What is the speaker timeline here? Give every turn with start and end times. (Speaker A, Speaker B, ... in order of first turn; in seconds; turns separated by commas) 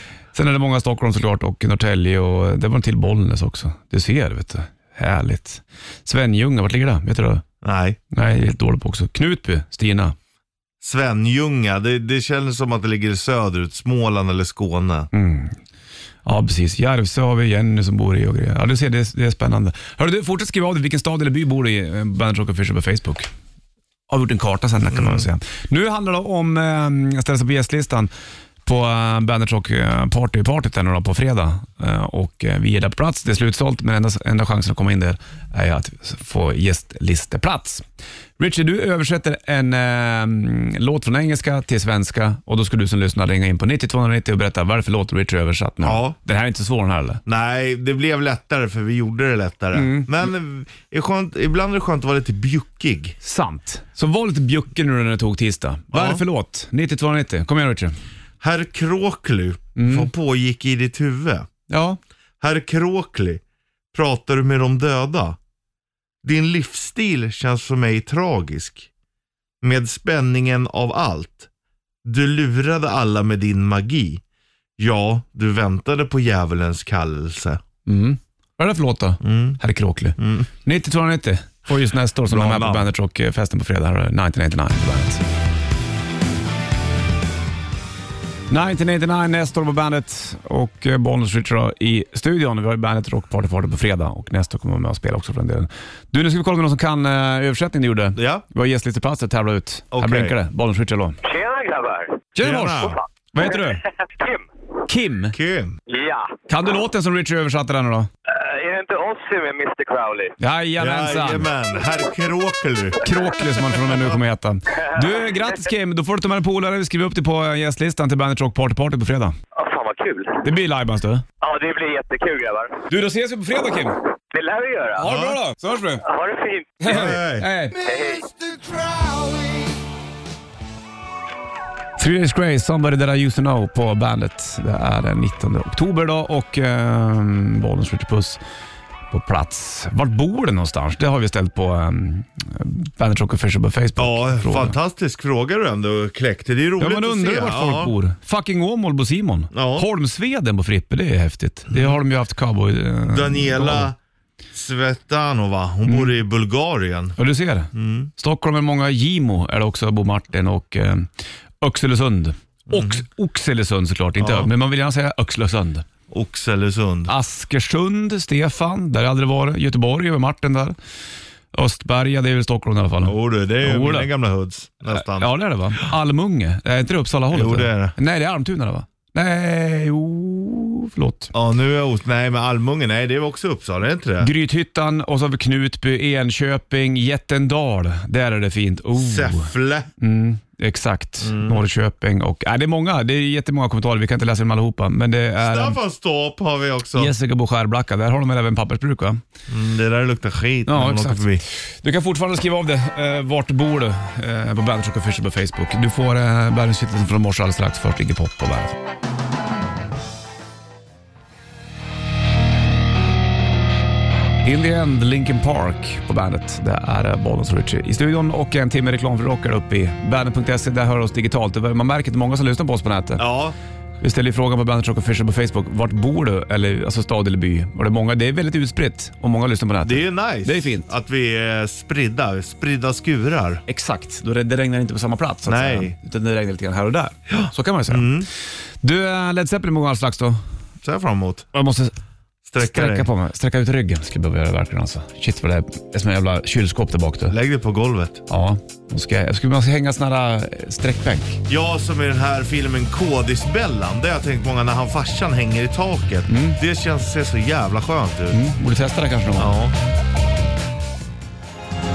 Speaker A: 0.3-7.4, Speaker B: 7.6-8.0, Speaker A: 8.1-10.2, Speaker B: 10.8-15.1, Speaker A: 15.1-15.6, Speaker A: 16.2-23.3, Speaker A: 24.1-28.1, Speaker B: 25.0-25.2, Speaker A: 28.6-37.9, Speaker A: 38.4-47.2, Speaker B: 45.8-46.2, Speaker B: 47.3-53.2, Speaker A: 49.7-50.1, Speaker A: 53.2-58.0, Speaker B: 55.9-56.2, Speaker B: 58.4-61.5, Speaker A: 59.8-60.1, Speaker A: 61.7-62.0, Speaker B: 62.4-63.4, Speaker B: 63.9-65.4, Speaker B: 66.2-68.9, Speaker B: 69.6-71.5, Speaker B: 72.0-74.2, Speaker B: 74.8-77.6, Speaker A: 77.9-85.2, Speaker B: 79.2-79.6, Speaker B: 80.2-80.5, Speaker B: 82.3-82.9, Speaker A: 88.5-101.2, Speaker B: 98.2-98.4, Speaker B: 99.9-100.3, Speaker C: 101.2-102.3, Speaker A: 102.4-103.8, Speaker B: 102.4-103.0, Speaker C: 103.5-104.5, Speaker A: 104.9-105.3, Speaker B: 105.3-105.8, Speaker C: 105.9-106.3, Speaker A: 106.5-108.1, Speaker C: 108.3-110.3, Speaker A: 110.4-111.5, Speaker B: 110.8-113.0, Speaker A: 113.0-119.4, Speaker C: 115.0-115.5, Speaker C: 119.5-120.4, Speaker A: 120.4-121.2, Speaker C: 121.4-122.8, Speaker A: 122.9-124.0, Speaker C: 124.3-125.1, Speaker A: 125.0-126.0, Speaker B: 125.0-125.4, Speaker C: 126.0-126.9, Speaker A: 126.8-127.8, Speaker B: 126.9-129.8, Speaker C: 127.8-128.2, Speaker A: 132.0-138.4, Speaker A: 139.1-144.8, Speaker B: 144.0-147.9, Speaker A: 146.8-153.9, Speaker B: 149.5-149.9, Speaker B: 151.7-152.0, Speaker B: 153.1-154.0, Speaker B: 154.5-157.2, Speaker A: 155.9-156.2, Speaker A: 157.2-161.1, Speaker B: 157.7-158.1, Speaker A: 161.6-165.8, Speaker B: 162.7-163.0, Speaker B: 164.2-164.5, Speaker B: 166.1-167.1, Speaker A: 167.1-170.8, Speaker A: 171.5-174.1, Speaker B: 173.1-175.3, Speaker A: 174.9-181.3, Speaker B: 177.3-178.0, Speaker B: 181.3-184.3, Speaker A: 184.2-195.8, Speaker B: 189.0-189.9, Speaker B: 191.2-191.6, Speaker B: 195.4-197.1, Speaker A: 197.0-199.2, Speaker B: 199.5-201.4, Speaker A: 200.7-208.8, Speaker A: 214.4-223.2, Speaker B: 223.2-223.6, Speaker A: 224.0-230.9, Speaker B: 229.8-233.6, Speaker A: 233.7-238.2, Speaker B: 235.5-235.9, Speaker B: 237.3-238.3, Speaker A: 238.8-240.4, Speaker B: 240.8-241.5, Speaker A: 241.5-241.9, Speaker B: 242.5-243.1, Speaker A: 242.6-247.3, Speaker B: 247.3-248.2, Speaker A: 248.3-251.4, Speaker B: 251.5-258.4, Speaker A: 256.3-256.6, Speaker A: 258.3-259.5, Speaker B: 259.4-259.8